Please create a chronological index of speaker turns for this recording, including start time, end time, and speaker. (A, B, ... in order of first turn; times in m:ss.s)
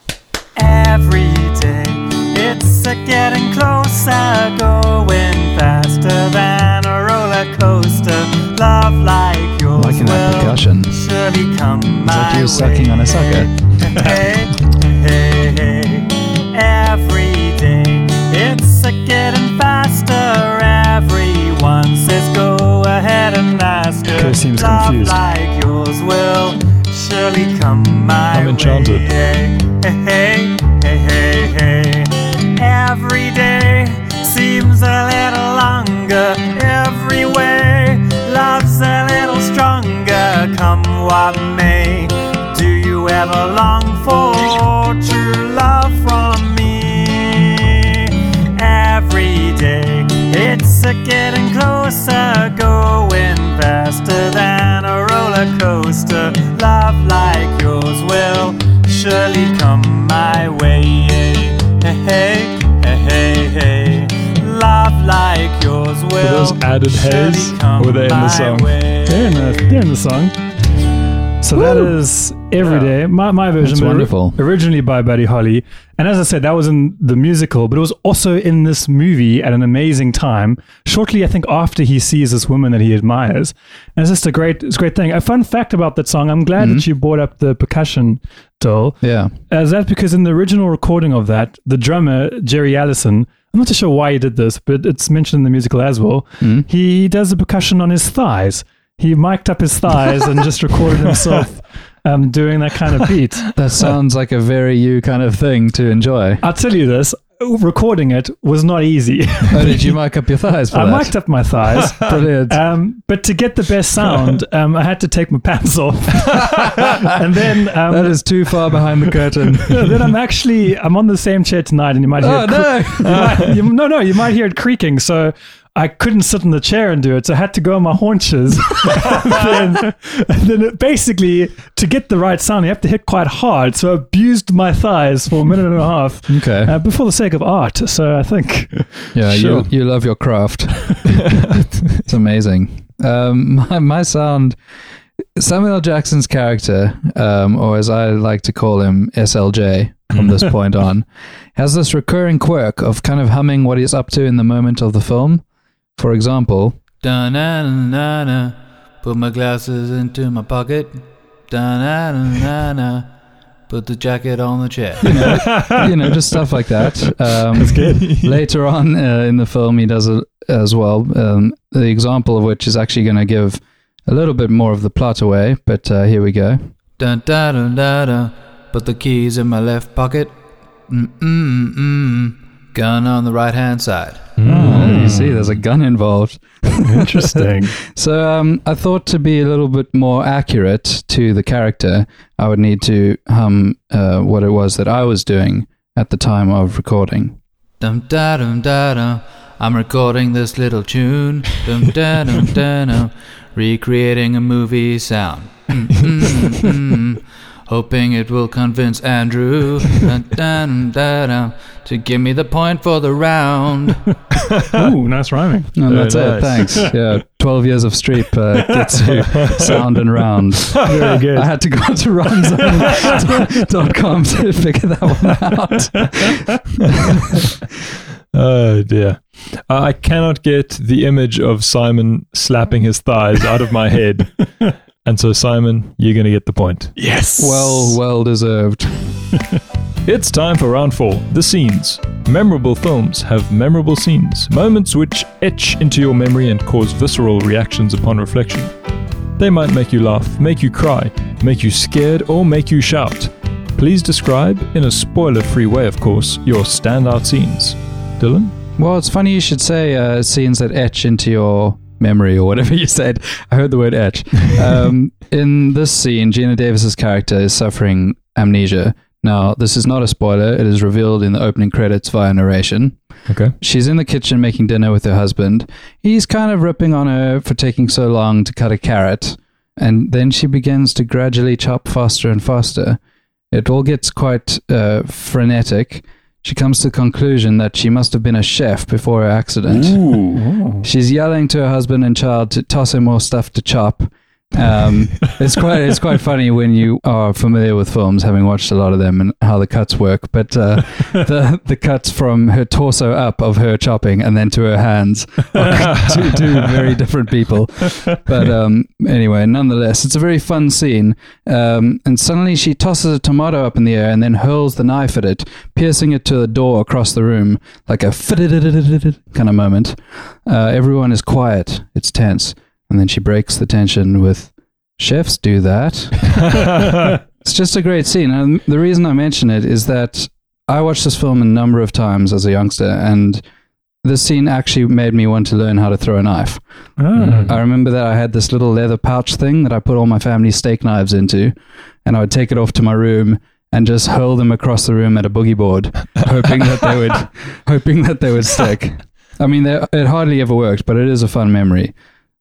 0:00.6-1:09.4 A
0:09.7-0:10.9 B
0:12.0-0:13.5 B
0:24.1-0:25.2 C
0:28.3-0:29.1 D
1:06.2-1:08.8 D
1:09.0-1:10.3 C
1:11.4-1:43.5 C
1:11.6-1:11.9 B
1:13.6-1:14.4 B
1:26.6-1:26.8 B
1:29.0-1:29.3 B
1:36.4-1:36.6 B
1:43.5-1:46.4 B
1:46.4-1:49.9 C
1:49.5-1:51.2 B
1:50.7-1:58.2 C
1:51.9-1:52.6 B
1:56.4-1:57.1 B
1:57.8-2:00.1 B
1:59.5-2:19.1 C
2:02.2-2:03.5 B
2:16.3-2:16.7 B
2:19.1-2:24.6 B
2:19.3-2:19.6 D
2:21.2-2:22.0 D
2:25.3-2:35.4 B
2:36.0-2:43.1 B
2:43.7-3:00.4 B
2:45.0-2:46.0 C
2:47.5-2:48.1 C
2:47.9-2:48.3 D
3:00.9-3:34.0 B
3:04.4-3:05.3 D
3:04.4-3:05.3 C
3:06.8-3:07.8 C
3:34.4-3:34.8 D
3:34.7-3:35.8 C
3:35.7-3:47.5 B
3:35.9-3:36.8 D
3:38.7-3:39.1 C
3:39.3-3:39.8 D
3:40.8-3:41.5 C
3:42.9-3:43.2 C
3:48.3-3:54.4 D
3:55.0-3:56.9 D
3:57.0-3:58.0 C
3:57.4-3:59.0 B
4:00.0-4:08.7 D
4:09.4-4:18.5 D
4:18.8-4:33.0 B
4:33.3-4:33.5 D
4:33.6-4:43.0 B
4:43.5-4:50.2 B
4:50.3-4:50.9 C
4:50.8-5:33.4 B
5:05.7-5:06.4 D
5:34.0-5:36.6 B
5:37.0-5:37.5 C
5:37.2-5:37.5 D
5:37.4-5:41.5 B
5:42.0-5:51.9 B